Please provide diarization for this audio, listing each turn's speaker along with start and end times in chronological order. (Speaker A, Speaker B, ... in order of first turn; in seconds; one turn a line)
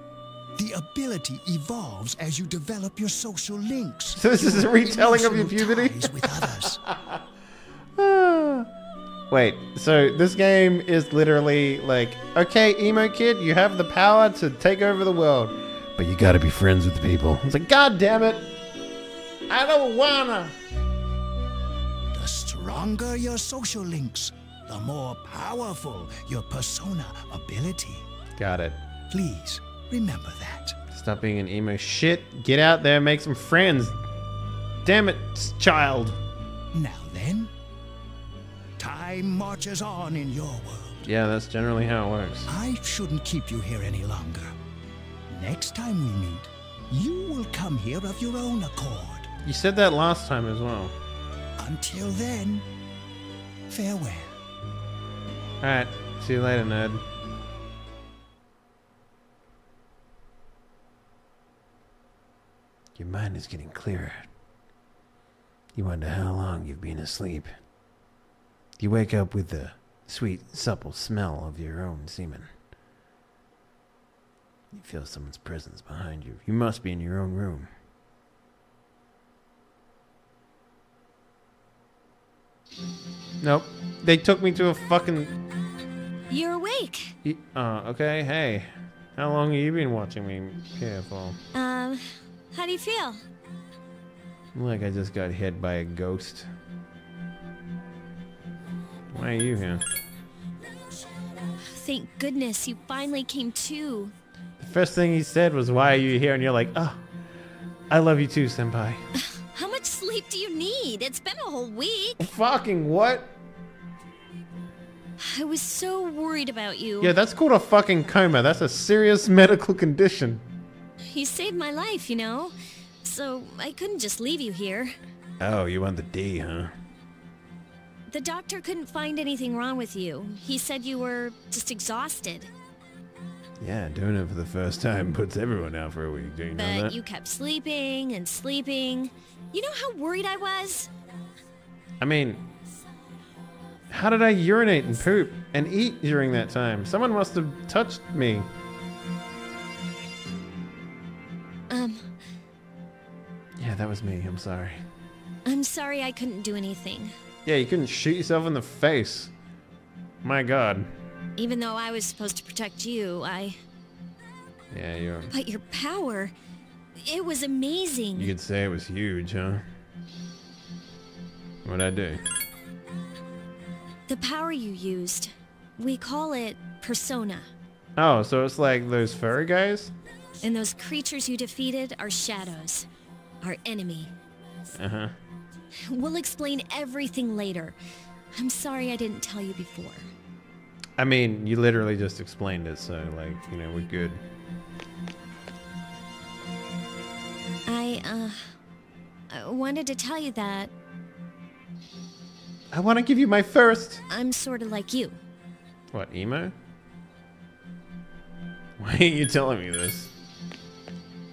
Speaker A: 0.6-6.8
Speaker B: 4.2-7.2
Speaker B: 8.0-8.7
Speaker B: 9.3-18.5
Speaker B: 19.5-20.6
Speaker A: 22.1-28.1
Speaker B: 28.4-28.8
Speaker A: 29.1-30.8
Speaker B: 30.9-34.0
Speaker B: 34.8-36.2
Speaker A: 36.7-37.5
Speaker A: 38.8-41.0
Speaker B: 41.0-42.5
Speaker A: 42.5-44.5
Speaker A: 45.3-49.3
Speaker B: 49.4-50.9
Speaker A: 51.6-52.6
Speaker A: 53.7-54.3
Speaker B: 55.6-57.0
Speaker B: 63.0-64.3
Speaker B: 65.7-67.5
Speaker B: 68.8-72.5
Speaker B: 74.7-77.7
Speaker B: 83.4-85.3
Speaker C: 86.3-87.1
Speaker B: 87.2-91.4
Speaker C: 91.5-93.2
Speaker B: 94.5-96.5
Speaker B: 99.1-99.8
Speaker C: 101.7-104.1
Speaker B: 104.6-107.0
Speaker B: 107.9-109.0
Speaker C: 109.2-112.2
Speaker B: 112.2-113.3
Speaker C: 115.2-117.1
Speaker B: 117.0-120.4
Speaker C: 121.1-125.0
Speaker B: 125.4-126.7
Speaker C: 128.1-132.5
Speaker B: 133.6-136.9
Speaker C: 136.6-140.9
Speaker B: 142.0-142.4
Speaker B: 143.9-148.5
Speaker C: 151.7-152.1
Speaker B: 153.6-154.8
Speaker C: 155.4-157.1
Speaker B: 157.4-159.3
Speaker B: 160.2-160.9
Speaker C: 161.4-163.6
Speaker B: 164.7-165.3
Speaker C: 165.3-166.3
Speaker C: 167.0-168.3
Speaker B: 168.2-169.6
Speaker B: 171.6-172.2
Speaker C: 174.1-177.5
Speaker B: 178.0-179.9
Speaker C: 180.4-182.9
Speaker C: 183.4-184.1
Speaker B: 184.8-185.1
Speaker C: 185.8-187.8
Speaker C: 188.3-190.1
Speaker B: 191.0-194.2
Speaker C: 197.7-198.5
Speaker C: 199.3-200.7
Speaker B: 202.7-204.0
Speaker C: 204.1-205.2
Speaker B: 205.9-206.5
Speaker B: 208.8-210.1